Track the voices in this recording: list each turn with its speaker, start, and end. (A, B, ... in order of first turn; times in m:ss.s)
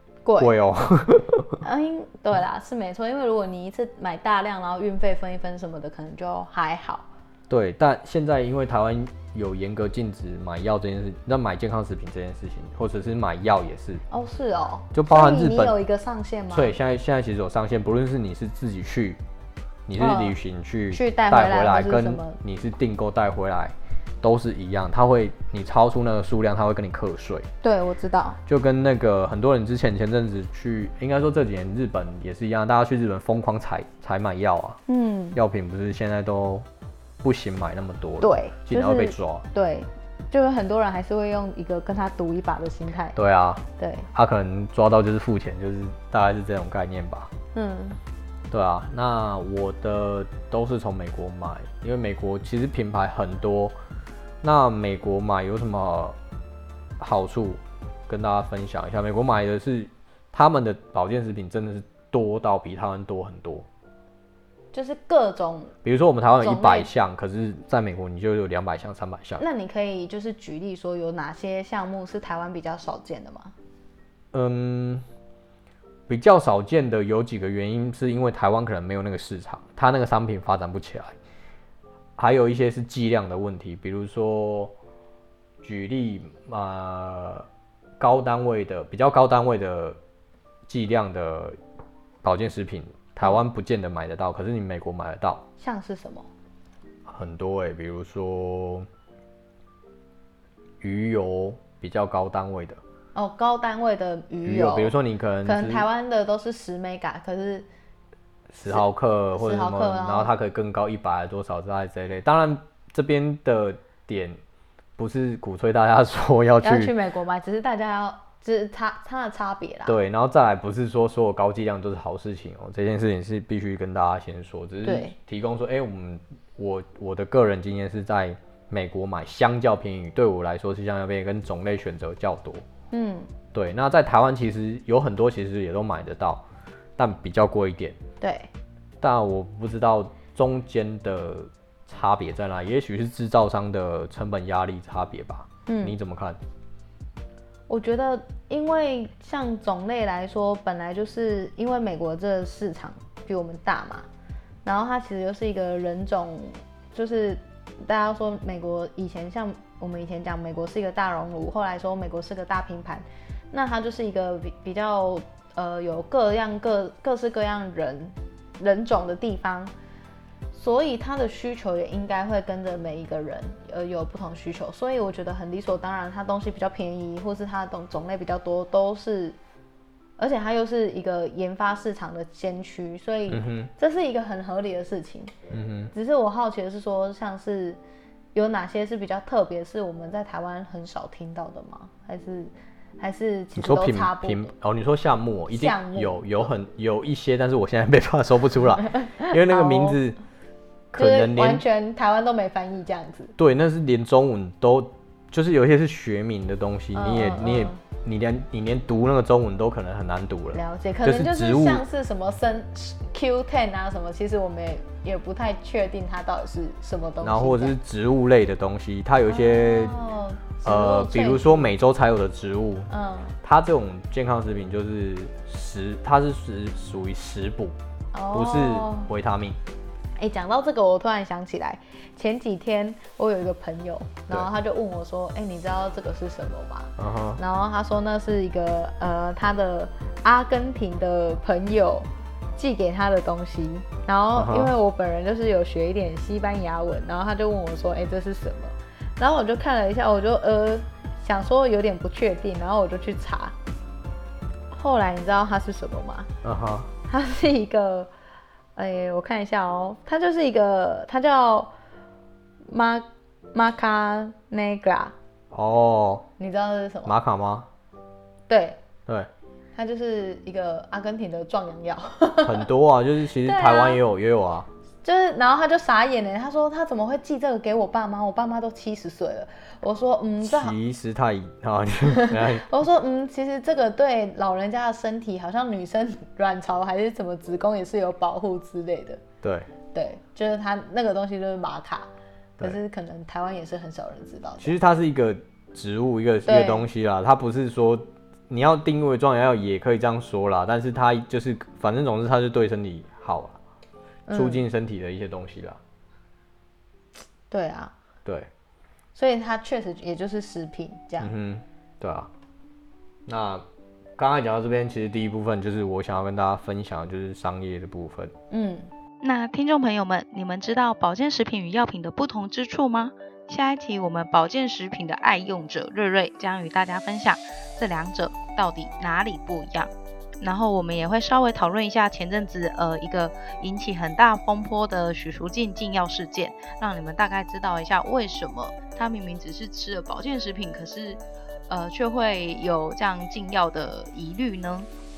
0:00.2-0:00.5 A
0:00.4-0:01.6 B
0:01.6-0:07.1 A
0:07.5-0:14.0 B
0:14.1-0:16.8 A
0:14.9-0:15.8 B
0:16.5-0:19.2 B
0:19.9-0:27.5 B
0:20.0-0:20.4 A
0:20.9-0:22.4 A
0:27.6-0:28.4 A
0:28.4-0:34.8 B
0:34.9-0:35.4 A
0:35.3-0:36.6 B
0:37.2-0:39.4 B
0:38.2-0:43.2 A
0:43.2-0:47.3 B
0:43.8-0:44.1 A
0:47.5-0:48.0 A
0:48.5-0:53.8 B
0:54.4-0:56.2 B
0:57.0-1:03.7 B
1:04.7-1:05.7 A
1:05.8-1:09.4 B
1:06.4-1:06.9 A
1:09.4-1:13.5 A
1:14.3-1:15.0 B
1:16.1-1:21.1 B
1:22.2-1:24.7 B
1:25.6-1:27.5 B
1:28.0-1:30.0 B
1:30.7-1:31.6 B
1:32.2-1:35.4 B
1:35.6-1:36.3 A
1:37.1-1:38.9 B
1:40.8-1:42.8 B
1:43.1-1:47.7 A
1:44.4-1:45.8 B
1:48.5-1:54.4 B
1:49.3-1:50.3 A
1:55.0-1:56.9 B
1:56.6-2:00.0 A
1:59.8-2:12.6 B
2:04.8-2:05.2 A
2:12.9-2:13.3 A
2:13.5-2:16.4 B
2:17.0-2:18.0 B
2:18.2-2:18.5 A
2:19.0-2:26.4 B
2:25.7-2:26.0 A
2:27.7-2:34.1 A
2:34.6-2:49.7 A
2:50.5-2:59.4 A
3:00.2-3:05.3 A
3:03.3-3:03.7 B
3:05.5-3:05.9 B
3:05.9-3:07.8 A
3:08.3-3:14.5 A
3:13.6-3:20.2 B
3:15.5-3:16.5 A
3:18.9-3:20.0 A
3:20.9-3:21.6 B
3:20.9-3:23.3 A
3:23.4-3:31.8 B
3:26.9-3:27.8 A
3:30.5-3:37.8 A
3:37.2-3:40.0 B
3:39.3-3:41.7 A
3:40.6-3:42.9 B
3:42.9-3:43.4 A
3:43.4-3:47.8 B
3:48.1-3:49.1 A
3:48.3-3:49.6 B
3:50.2-4:13.5 A
3:57.0-3:57.4 B
4:04.3-4:04.7 B
4:14.7-4:16.3 A
4:16.4-4:16.9 B
4:17.1-4:18.1 A
4:18.8-4:21.7 A
4:22.7-4:25.1 A
4:25.5-4:26.3 B
4:26.4-4:27.1 A
4:27.0-4:27.7 B
4:28.5-4:28.8 A
4:29.7-4:32.7 A
4:32.4-4:34.7 B
4:33.4-4:34.0 A
4:35.0-4:40.8 A
4:40.4-4:42.7 B
4:42.0-4:49.2 A
4:49.4-4:49.7 B
4:49.9-4:52.1 A
4:52.6-4:54.8 A
4:54.6-5:03.6 B
4:56.4-4:56.8 A
5:04.3-5:04.6 A
5:04.3-5:05.8 B
5:07.5-5:07.9 A
5:09.1-5:11.3 A
5:11.2-5:12.3 B
5:13.3-5:13.6 B
5:14.2-5:18.3 B
5:18.5-5:18.9 A
5:19.2-5:44.9 C